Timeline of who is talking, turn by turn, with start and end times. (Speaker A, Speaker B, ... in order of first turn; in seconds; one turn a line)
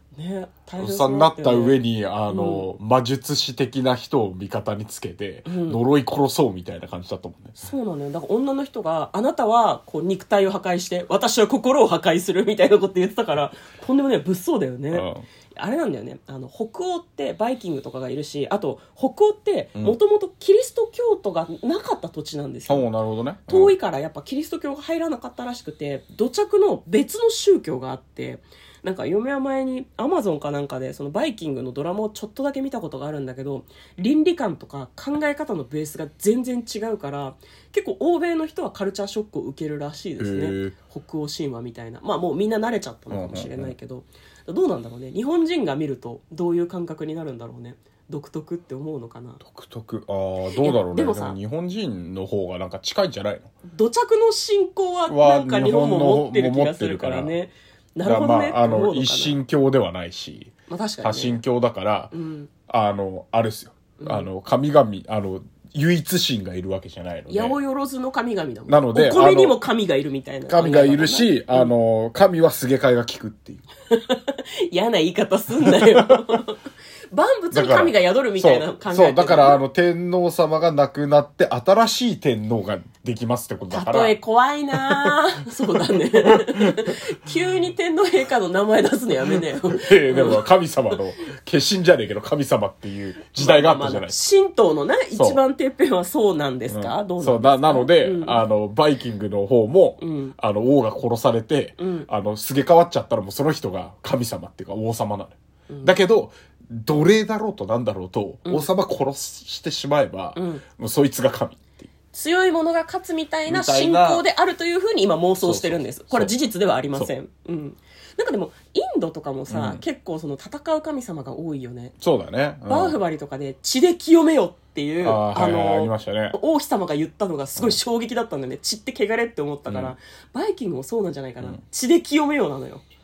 Speaker A: 0.1-2.6
Speaker B: 0.8-7.6
Speaker A: 5.5-5.8
Speaker A: 7.6-22.9
Speaker B: 14.9-15.2
Speaker B: 22.7-23.8
Speaker A: 23.5-49.4
Speaker B: 40.2-40.7
Speaker B: 43.1-43.7
Speaker B: 49.4-53.5
Speaker A: 50.5-51.4
Speaker A: 53.7-59.4
Speaker B: 55.1-57.3
Speaker B: 58.0-62.1
Speaker A: 60.7-61.4
Speaker A: 62.1-62.5
Speaker B: 62.7-67.6
Speaker A: 64.0-64.3
Speaker A: 67.3-71.7
Speaker B: 68.7-69.6
Speaker B: 70.5-73.6
Speaker A: 73.9-79.6
Speaker B: 75.7-76.2
Speaker B: 77.5-84.2
Speaker A: 83.7-90.4
Speaker B: 84.8-85.2
Speaker B: 85.8-87.0
Speaker B: 89.6-94.2
Speaker A: 93.3-98.4
Speaker B: 95.1-95.4
Speaker B: 96.7-111.9
Speaker A: 100.0-100.3
Speaker A: 101.8-102.1
Speaker A: 105.7-106.0
Speaker A: 110.3-110.6
Speaker A: 112.1-121.9
Speaker B: 113.5-114.2
Speaker B: 115.4-116.3
Speaker B: 119.5-119.8
Speaker B: 122.0-123.0
Speaker A: 122.7-132.8
Speaker B: 125.0-126.4
Speaker B: 129.7-129.9